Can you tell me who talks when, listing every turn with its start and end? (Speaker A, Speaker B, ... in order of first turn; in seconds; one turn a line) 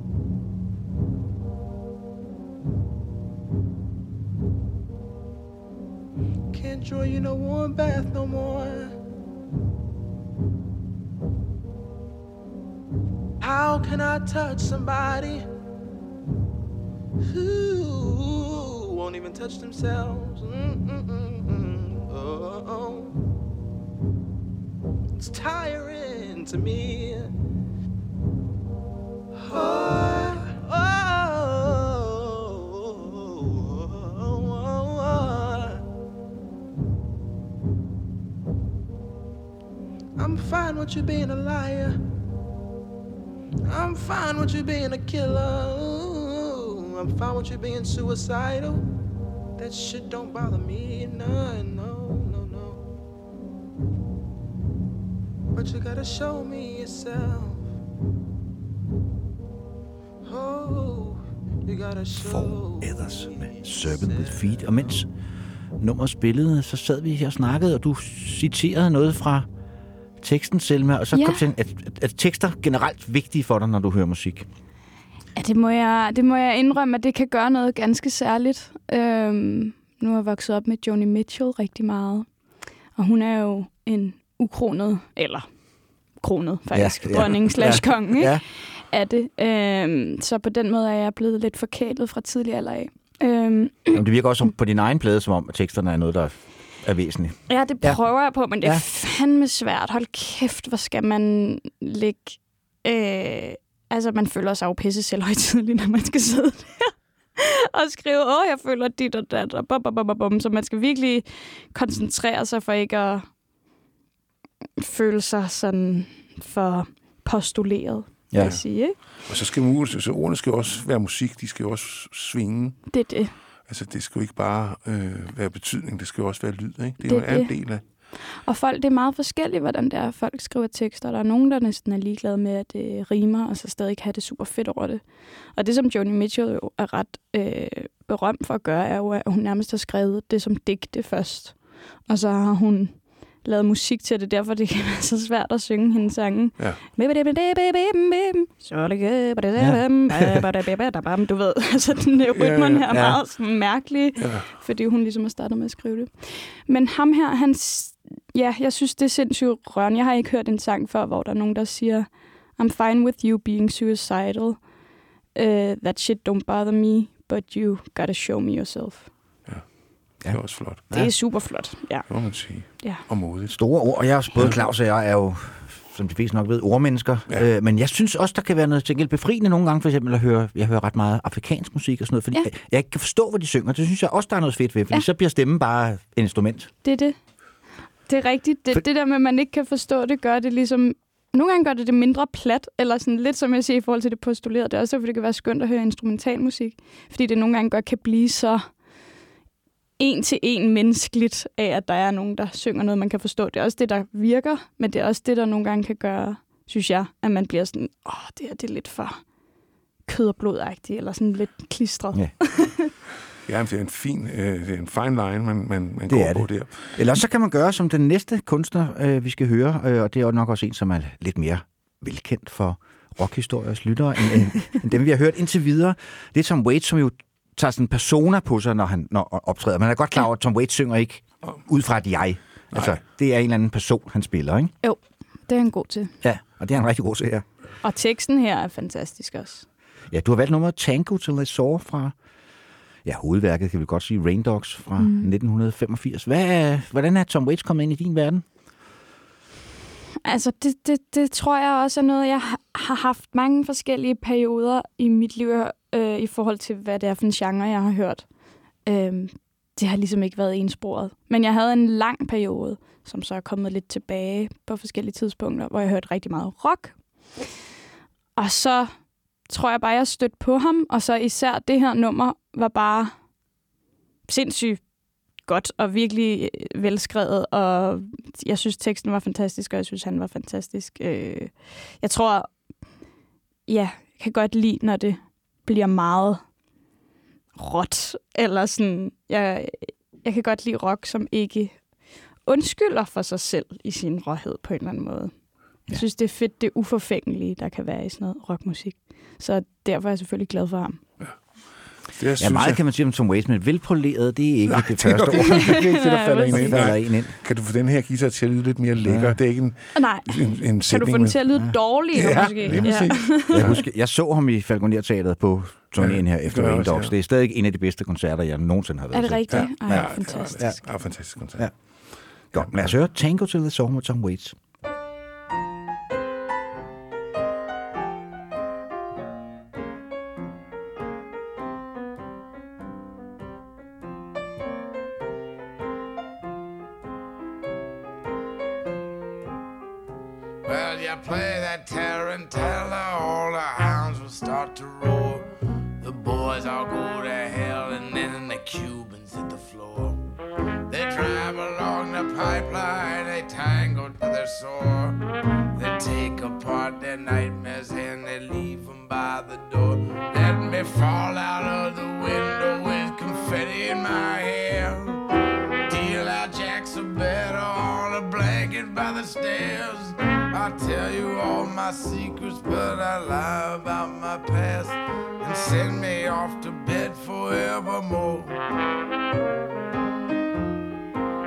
Speaker A: 6.5-8.9
Speaker A: 13.4-15.4
Speaker A: 17.2-23.1
Speaker A: 25.2-27.3
Speaker A: 29.4-35.8
Speaker A: 40.2-42.0
Speaker A: 43.7-48.9
Speaker A: 49.6-52.8
Speaker A: 55.5-57.7
Speaker A: 60.2-64.6
Speaker B: 62.2-65.1
Speaker B: 65.8-69.5
Speaker B: 70.2-74.5
Speaker C: 71.1-71.4
Speaker C: 75.4-82.3
Speaker C: 82.9-85.5
Speaker C: 86.2-94.0
Speaker B: 86.7-88.4
Speaker B: 93.9-98.0
Speaker C: 97.5-113.3
Speaker C: 114.8-119.0
Speaker B: 118.3-118.6
Speaker D: 118.4-122.9
Speaker C: 122.9-123.3
Speaker D: 123.7-127.8
Speaker C: 127.0-164.6
Speaker B: 149.6-150.4
Speaker D: 152.3-152.9
Speaker B: 152.9-153.2
Speaker D: 154.2-154.5
Speaker C: 165.3-169.1
Speaker D: 169.5-170.8
Speaker B: 170.2-171.1
Speaker C: 170.9-173.0
Speaker D: 172.1-173.6
Speaker B: 173.6-186.7
Speaker C: 186.8-187.2
Speaker C: 188.1-198.7
Speaker C: 200.0-209.2
Speaker C: 210.1-212.9
Speaker D: 213.4-217.0
Speaker B: 216.1-234.7
Speaker C: 234.8-236.1
Speaker B: 236.2-237.4
Speaker C: 237.8-239.7
Speaker B: 240.1-242.1
Speaker B: 243.0-248.4
Speaker C: 245.0-245.3
Speaker C: 250.2-258.3
Speaker C: 258.8-267.4
Speaker C: 268.4-268.9
Speaker C: 269.4-273.1
Speaker C: 274.3-274.8
Speaker C: 275.4-282.5
Speaker C: 283.7-286.4
Speaker C: 287.6-291.8
Speaker C: 292.4-301.0
Speaker D: 302.1-302.8
Speaker B: 302.4-305.9
Speaker D: 304.7-311.6
Speaker C: 305.5-306.8
Speaker B: 306.5-307.4
Speaker B: 309.0-309.4
Speaker C: 309.9-313.7
Speaker D: 312.1-313.8
Speaker B: 312.6-321.8
Speaker D: 316.0-317.1
Speaker C: 319.1-320.7
Speaker D: 319.5-322.9
Speaker B: 322.3-324.6
Speaker E: 340.6-345.4
Speaker E: 346.0-350.2
Speaker E: 350.9-355.2
Speaker E: 355.8-365.2
Speaker E: 365.9-378.5